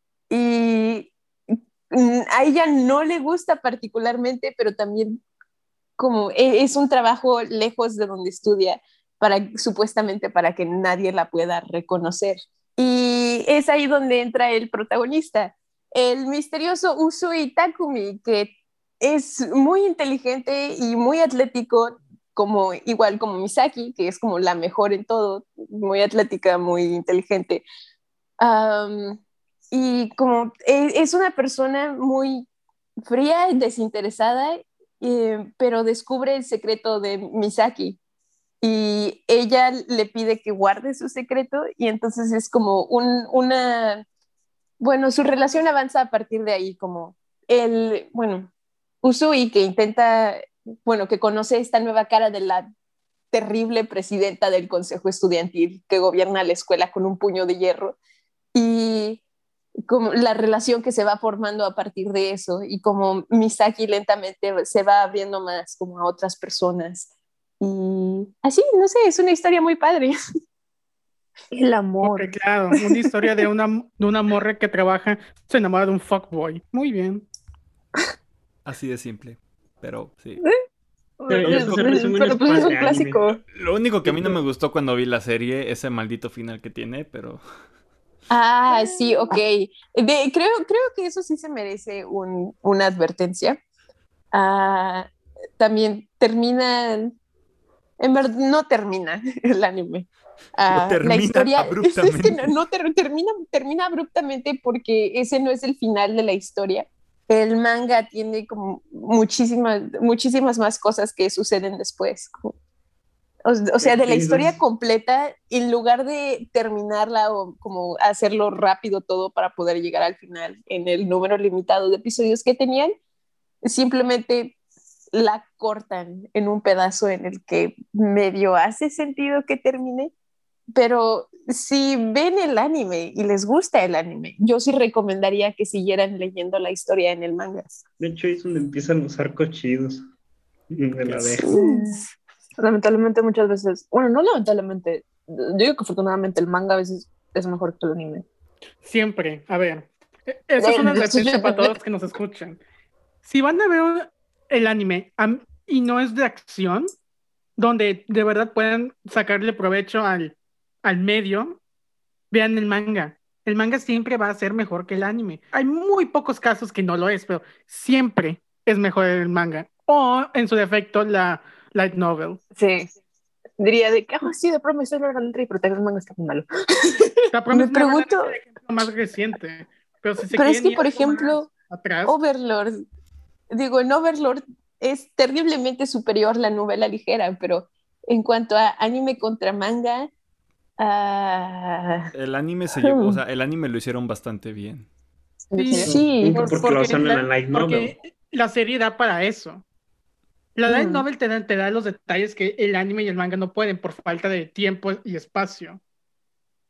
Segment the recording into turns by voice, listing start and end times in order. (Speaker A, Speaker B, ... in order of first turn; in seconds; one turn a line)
Speaker A: 0.3-5.2
Speaker A: 6.0-27.6
Speaker A: 28.4-29.2
Speaker A: 29.7-32.5
Speaker A: 33.1-38.0
Speaker A: 38.6-44.0
Speaker A: 44.8-48.5
Speaker A: 49.0-52.7
Speaker A: 53.3-58.0
Speaker A: 58.5-59.2
Speaker A: 59.9-70.2
Speaker A: 71.5-72.3
Speaker B: 72.0-77.3
Speaker C: 78.7-80.4
Speaker D: 81.2-83.4
Speaker E: 81.3-83.2
Speaker C: 83.5-87.4
Speaker A: 88.3-93.6
Speaker A: 94.3-97.2
Speaker A: 98.0-112.6
Speaker C: 100.7-102.5
Speaker A: 113.5-123.0
Speaker E: 113.8-114.6
Speaker A: 123.6-124.6
Speaker A: 125.1-130.1
Speaker A: 130.7-137.8
Speaker E: 138.0-140.0
Speaker E: 140.7-141.5
Speaker C: 141.0-141.4
Speaker A: 141.5-142.0
Speaker D: 141.7-142.0
Speaker D: 142.6-148.3
Speaker B: 148.8-152.6
Speaker A: 150.6-151.8
Speaker B: 153.2-156.9
Speaker B: 157.6-161.6
Speaker B: 162.3-172.4
Speaker D: 173.6-177.3
Speaker B: 177.3-182.2
Speaker A: 177.5-178.3
Speaker A: 180.3-181.5
Speaker A: 182.1-182.8
Speaker A: 183.5-190.1
Speaker A: 190.8-192.1
Speaker C: 192.1-194.9
Speaker A: 192.8-193.2
Speaker A: 195.5-196.6
Speaker B: 195.6-199.6
Speaker E: 195.8-197.9
Speaker B: 200.6-205.8
Speaker A: 200.7-201.0